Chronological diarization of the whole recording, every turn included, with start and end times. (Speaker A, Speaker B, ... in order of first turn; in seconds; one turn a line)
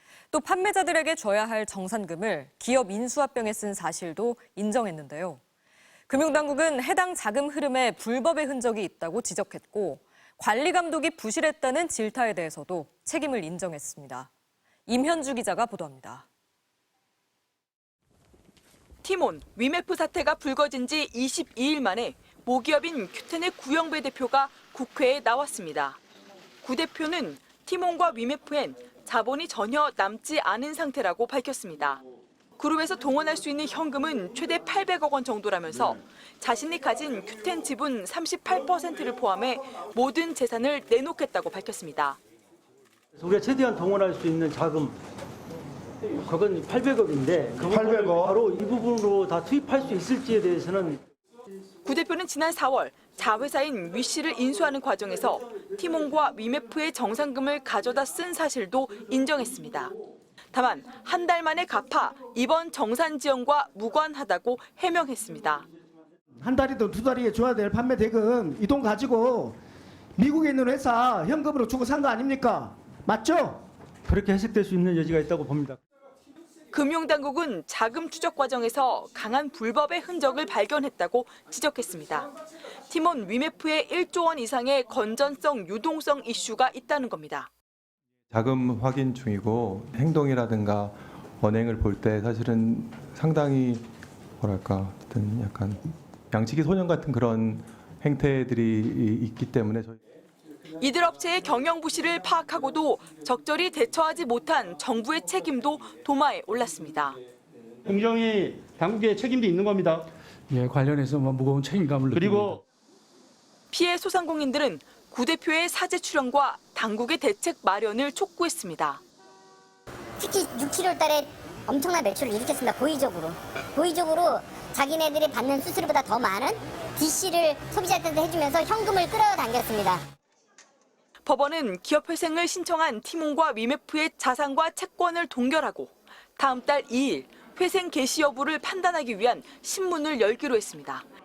Speaker A: 0.3-5.4
Speaker A: 6.1-14.3
Speaker A: 14.9-16.2
Speaker B: 19.0-26.0
Speaker B: 26.6-32.0
Speaker B: 32.6-42.2
Speaker C: 43.2-45.0
Speaker C: 46.3-51.0
Speaker D: 47.7-48.4
Speaker B: 51.8-60.0
Speaker B: 60.5-65.7
Speaker D: 66.4-69.6
Speaker D: 70.2-73.6
Speaker C: 74.1-75.8
Speaker B: 76.7-82.3
Speaker B: 82.9-87.5
Speaker E: 88.3-93.9
Speaker E: 94.4-100.0
Speaker B: 100.8-107.2
Speaker F: 107.8-110.1
Speaker G: 110.5-112.6
Speaker B: 113.7-119.0
Speaker H: 120.2-130.0
Speaker B: 131.2-141.1